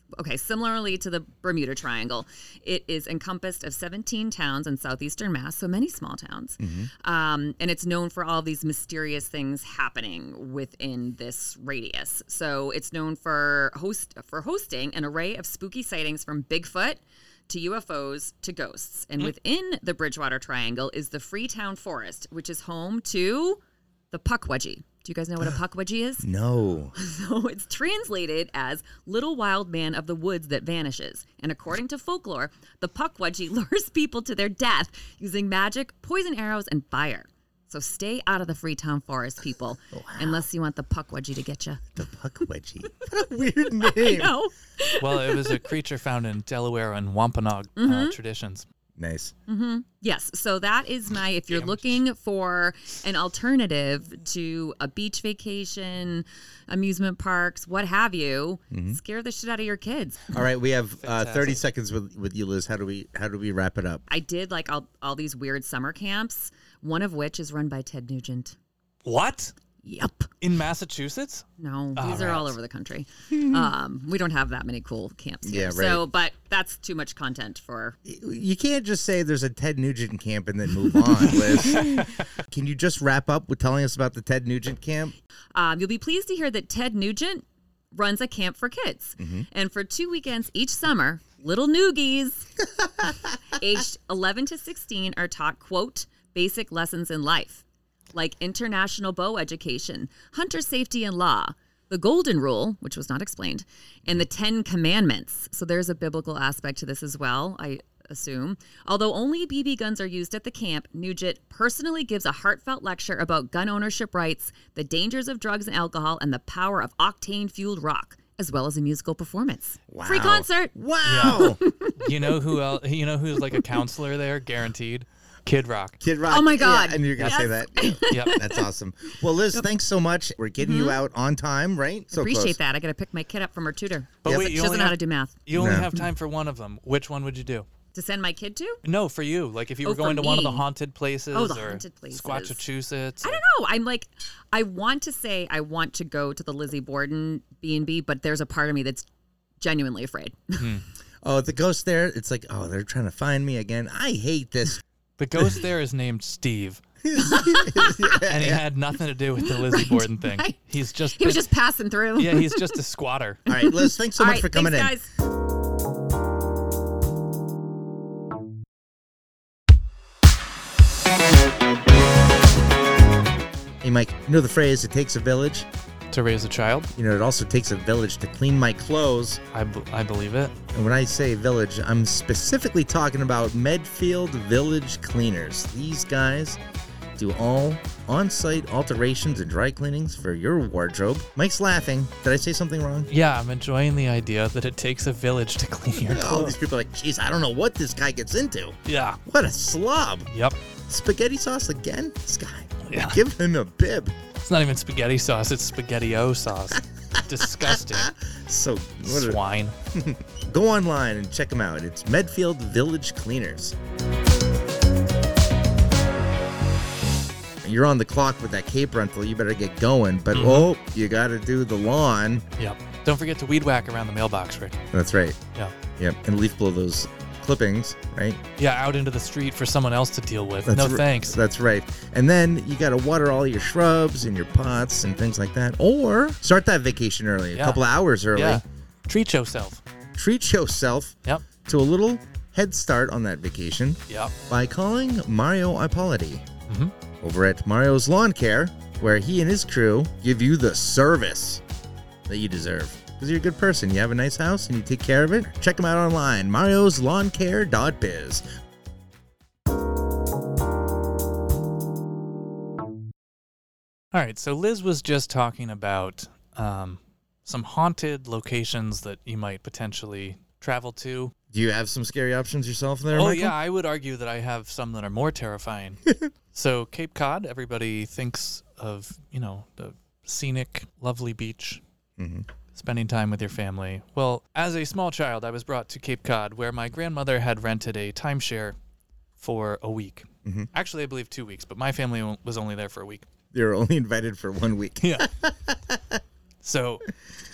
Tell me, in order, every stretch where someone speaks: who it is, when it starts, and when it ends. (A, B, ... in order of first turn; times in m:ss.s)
0:00.2-0:23.6 A
0:06.6-0:06.9 B
0:24.1-0:26.3 A
0:26.2-0:26.9 B
0:26.9-0:41.9 A
0:39.9-0:40.4 B
0:42.0-0:44.3 B
0:43.8-0:45.7 A
0:45.0-0:48.6 C
0:47.8-0:48.2 A
0:49.0-0:49.3 B
0:49.5-1:00.3 A
0:51.5-0:52.0 C
0:58.7-0:59.0 B
1:00.3-1:04.0 B
1:01.0-1:01.6 C
1:04.1-1:08.6 A
1:09.0-1:09.5 C
1:09.8-1:10.3 A
1:10.4-1:12.5 C
1:11.6-1:18.0 A
1:13.3-1:13.6 B
1:15.4-1:16.0 B
1:18.0-1:25.1 B
1:21.3-1:22.2 C
1:25.5-1:32.5 A
1:29.2-1:29.4 B
1:33.5-2:02.3 A
1:59.9-2:01.6 B
2:01.0-2:06.0 C
2:06.0-2:12.6 B
2:06.3-2:08.6 A
2:07.2-2:07.4 C
2:08.1-2:08.4 C
2:10.6-2:11.0 A
2:12.1-2:15.4 A
2:14.2-2:17.7 C
2:14.2-2:14.5 B
2:15.5-2:15.9 B
2:17.9-2:18.8 A
2:18.8-2:23.4 C
2:19.8-2:20.6 A
2:21.3-2:22.6 A
2:23.2-2:29.1 A
2:29.6-2:30.6 A
2:30.6-2:30.8 C
2:31.2-2:34.8 B
2:35.2-2:36.8 C
2:37.0-2:38.6 B
2:37.1-2:38.2 A
2:38.2-2:41.4 C
2:39.4-2:42.8 A
2:42.2-2:43.4 C
2:43.5-2:44.9 B
2:43.5-2:45.1 A
2:53.8-2:55.7 B
2:56.1-2:56.9 C
2:56.9-2:59.4 B
2:59.5-3:00.5 C
3:00.7-3:06.6 B
3:07.2-3:13.1 B
3:13.1-3:16.5 C
3:16.0-3:20.3 B
3:18.8-3:19.2 C
3:20.3-3:20.6 C
3:20.9-3:24.1 B
3:22.8-3:23.2 C
3:24.4-3:28.1 C
3:27.2-3:29.4 B
3:29.0-3:29.7 C
3:29.9-3:33.8 B
3:37.6-3:42.4 B
3:40.3-3:40.7 C
3:42.6-3:44.8 C
3:44.9-3:45.4 B
3:46.0-3:48.4 B
3:48.6-3:51.4 C
3:50.6-3:58.6 B
3:57.6-3:57.8 C
3:58.3-3:59.8 C
4:00.1-4:06.5 B
4:06.7-4:06.9 C
4:07.2-4:11.6 B
4:12.3-4:18.4 B
4:24.1-4:31.3 C
4:31.5-4:33.5 B
4:33.1-4:36.0 C
4:36.5-4:41.8 C
4:42.2-4:42.5 B
4:42.7-4:48.8 C
4:49.4-4:53.3 C
4:50.4-4:50.7 B
4:53.5-4:56.2 B
4:55.0-4:55.3 C
4:56.6-4:57.1 C